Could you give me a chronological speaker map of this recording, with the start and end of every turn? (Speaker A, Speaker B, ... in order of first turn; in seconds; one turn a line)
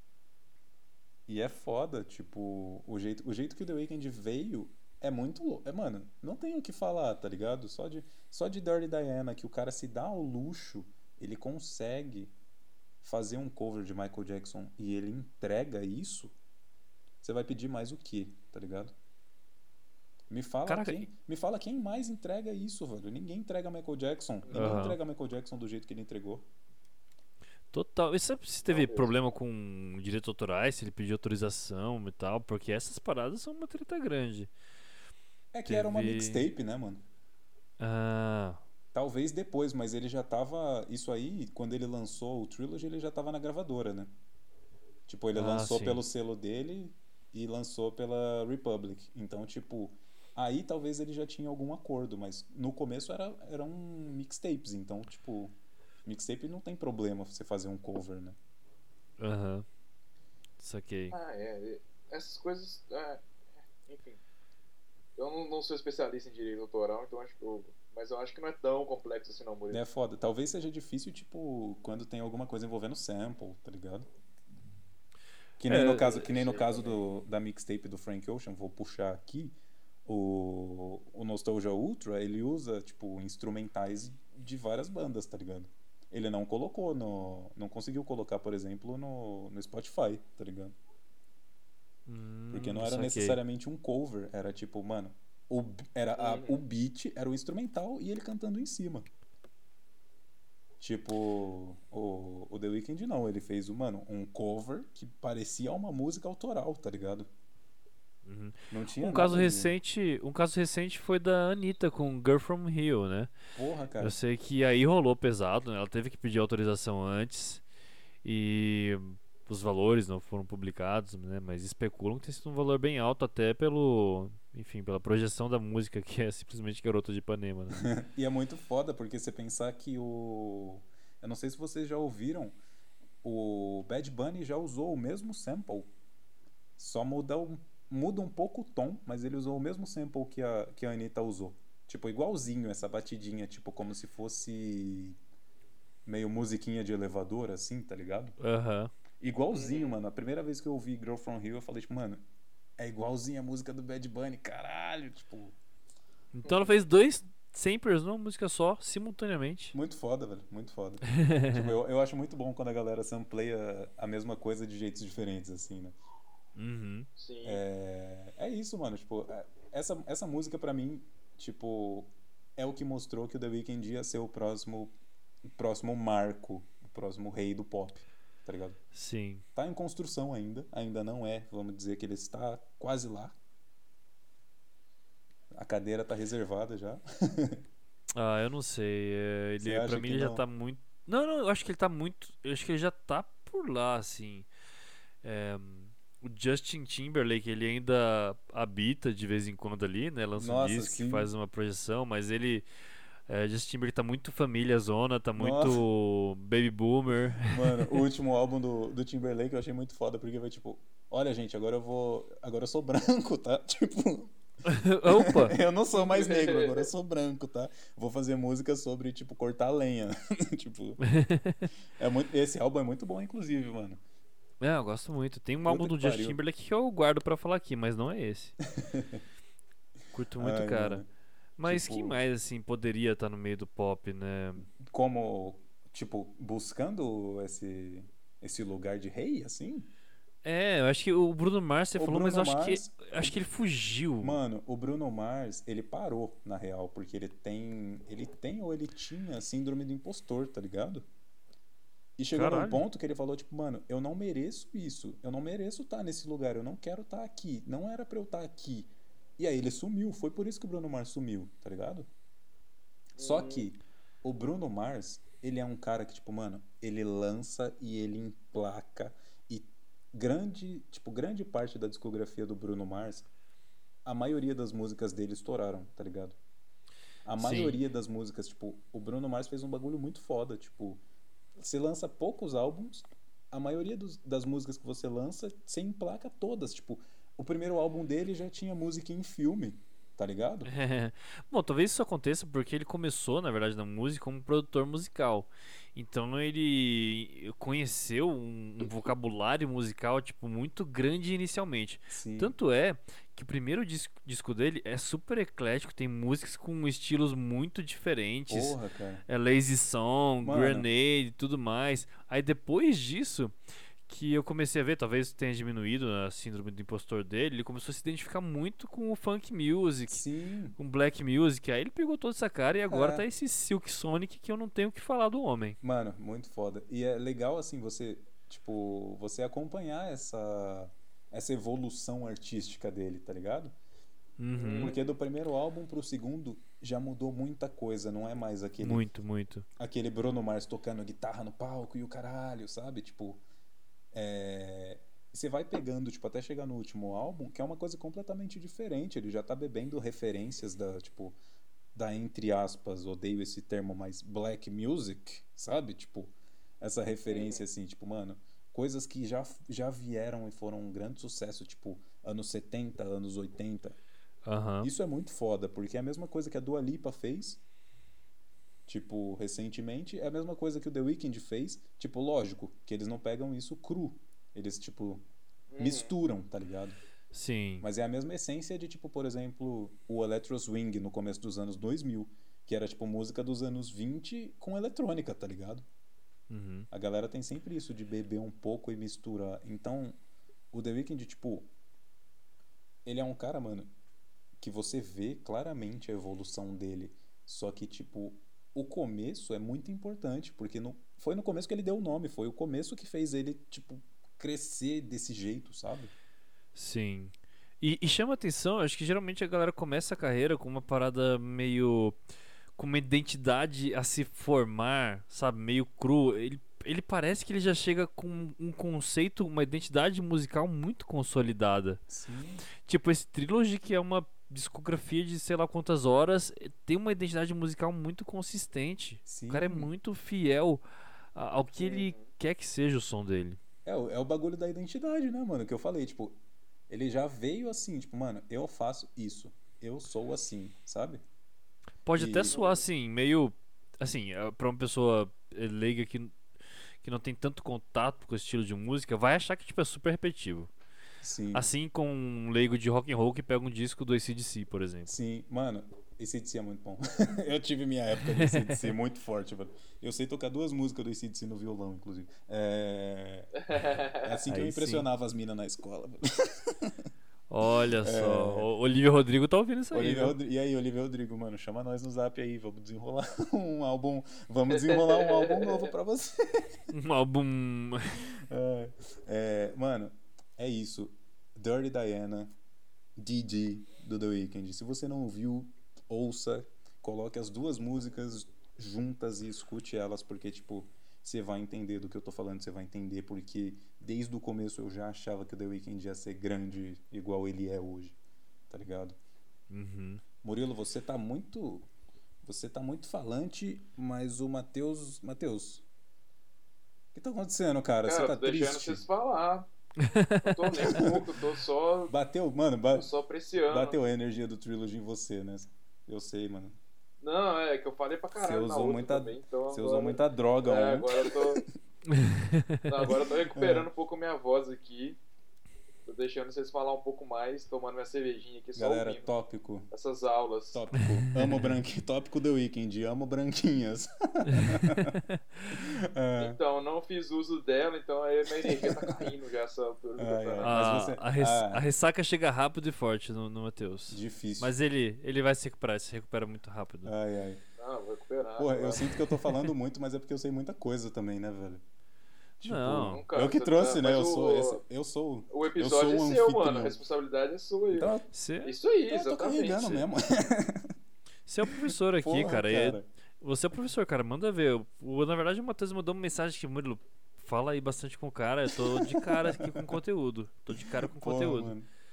Speaker A: 1.3-12.3
Speaker A: 13.0-16.3
Speaker A: 17.2-18.9
Speaker A: 20.3-26.5
Speaker B: 20.7-21.1
Speaker C: 24.4-24.9
Speaker B: 24.5-25.0
Speaker B: 27.7-34.5
Speaker C: 28.7-29.1
Speaker A: 35.5-37.0
Speaker B: 35.6-36.5
Speaker B: 37.8-38.6
Speaker A: 38.9-44.1
Speaker A: 45.1-58.4
Speaker B: 45.3-46.0
Speaker B: 59.2-59.6
Speaker B: 60.6-61.1
Speaker C: 61.1-64.2
Speaker C: 65.2-69.8
Speaker A: 69.7-74.1
Speaker A: 75.6-79.5
Speaker B: 75.7-76.0
Speaker C: 75.8-77.0
Speaker A: 80.0-90.8
Speaker B: 92.0-93.4
Speaker A: 92.5-99.1
Speaker C: 96.2-96.6
Speaker A: 100.8-107.3
Speaker B: 108.2-113.3
Speaker A: 108.7-109.7
Speaker A: 113.5-114.2
Speaker B: 114.0-117.6
Speaker B: 118.2-127.9
Speaker A: 127.8-132.6
Speaker A: 133.2-135.9
Speaker A: 136.8-145.2
Speaker A: 146.0-148.4
Speaker B: 148.4-148.9
Speaker A: 149.2-152.2
Speaker C: 149.5-150.0
Speaker A: 152.8-155.6
Speaker B: 156.3-159.7
Speaker C: 156.4-156.7
Speaker A: 159.7-166.0
Speaker B: 161.1-161.7
Speaker B: 166.6-167.1
Speaker C: 167.2-167.6
Speaker A: 167.4-178.8
Speaker B: 178.9-179.4
Speaker A: 179.5-183.3
Speaker A: 185.5-187.6
Speaker B: 188.1-194.5
Speaker A: 189.6-190.4
Speaker B: 195.2-202.6
Speaker A: 200.3-201.3
Speaker B: 203.3-207.9
Speaker A: 205.3-205.8
Speaker A: 207.4-214.3
Speaker B: 214.6-215.5
Speaker A: 215.0-221.0
Speaker C: 215.9-216.9
Speaker B: 221.1-221.7
Speaker A: 222.0-224.0
Speaker B: 224.6-228.6
Speaker A: 225.7-226.4
Speaker A: 228.8-229.2
Speaker B: 230.1-231.0
Speaker A: 230.4-231.1
Speaker B: 231.6-234.7
Speaker A: 231.6-232.2
Speaker A: 234.8-239.9
Speaker B: 240.4-244.4
Speaker A: 241.9-243.3
Speaker A: 244.2-251.1
Speaker A: 252.2-262.1
Speaker B: 252.3-252.8
Speaker A: 263.1-273.3
Speaker C: 263.2-263.7
Speaker A: 274.0-276.4
Speaker A: 277.2-281.0
Speaker B: 277.4-277.8
Speaker A: 281.6-290.7
Speaker B: 290.6-313.5
Speaker A: 302.1-302.5
Speaker A: 308.5-309.2
Speaker A: 310.4-310.9
Speaker B: 314.1-320.2
Speaker A: 320.1-320.8
Speaker B: 320.8-325.8
Speaker A: 322.9-323.3
Speaker A: 325.8-333.7
Speaker B: 334.4-334.9
Speaker C: 334.6-335.0
Speaker A: 334.8-339.0
Speaker B: 338.8-339.6
Speaker A: 339.8-343.4
Speaker A: 344.1-351.4
Speaker A: 351.9-363.9
Speaker C: 357.3-357.6
Speaker B: 364.4-364.9
Speaker A: 364.8-367.6
Speaker A: 368.9-375.2
Speaker C: 375.7-376.1
Speaker A: 375.8-377.0
Speaker B: 377.3-377.9
Speaker A: 377.8-385.8
Speaker B: 386.5-386.9
Speaker A: 386.9-390.2
Speaker A: 390.7-391.7
Speaker A: 393.0-393.9
Speaker A: 394.6-406.1
Speaker B: 406.7-412.2
Speaker B: 412.8-422.0
Speaker A: 422.1-422.6
Speaker B: 422.8-430.8
Speaker A: 429.2-429.9
Speaker B: 431.3-433.6
Speaker C: 431.8-432.2
Speaker A: 433.8-436.4
Speaker A: 436.9-441.2
Speaker B: 442.1-446.4
Speaker A: 442.1-442.6
Speaker C: 442.5-442.8
Speaker B: 447.0-450.7
Speaker A: 451.2-451.7
Speaker B: 451.5-455.1
Speaker A: 455.1-463.6
Speaker B: 458.3-458.9
Speaker C: 463.6-464.3
Speaker A: 464.1-467.1
Speaker B: 464.5-465.1
Speaker B: 467.5-470.4
Speaker A: 468.0-468.7
Speaker A: 469.9-476.9
Speaker C: 474.9-475.9
Speaker B: 476.9-478.2
Speaker A: 478.3-482.5
Speaker A: 483.2-498.1
Speaker A: 498.7-499.2
Speaker B: 499.7-500.2
Speaker A: 500.4-501.9
Speaker A: 502.4-505.8
Speaker A: 507.1-509.0
Speaker C: 508.0-509.7
Speaker B: 510.0-510.6
Speaker C: 510.4-512.1
Speaker A: 510.8-511.2
Speaker A: 512.1-513.1
Speaker C: 512.9-514.0
Speaker A: 513.7-516.8
Speaker C: 517.2-521.6
Speaker A: 518.3-521.6
Speaker B: 522.1-522.8
Speaker C: 522.9-525.2
Speaker A: 523.1-523.9
Speaker C: 526.0-529.3
Speaker A: 528.7-529.9
Speaker C: 529.9-530.8
Speaker A: 530.7-535.2
Speaker B: 531.0-531.7
Speaker B: 534.5-535.6
Speaker A: 535.7-536.6
Speaker C: 536.4-540.7
Speaker A: 538.5-539.3
Speaker A: 540.2-541.8
Speaker B: 540.6-547.1
Speaker A: 544.1-544.7
Speaker A: 547.0-547.6
Speaker C: 547.8-549.1
Speaker A: 548.6-551.8
Speaker A: 552.6-557.0
Speaker B: 552.6-553.2
Speaker C: 553.0-554.8
Speaker C: 555.5-558.1
Speaker A: 557.9-558.3
Speaker B: 558.3-558.7
Speaker C: 558.6-560.0
Speaker A: 559.1-560.9
Speaker B: 561.5-571.7
Speaker A: 561.9-563.0
Speaker A: 568.7-570.0
Speaker A: 570.7-571.9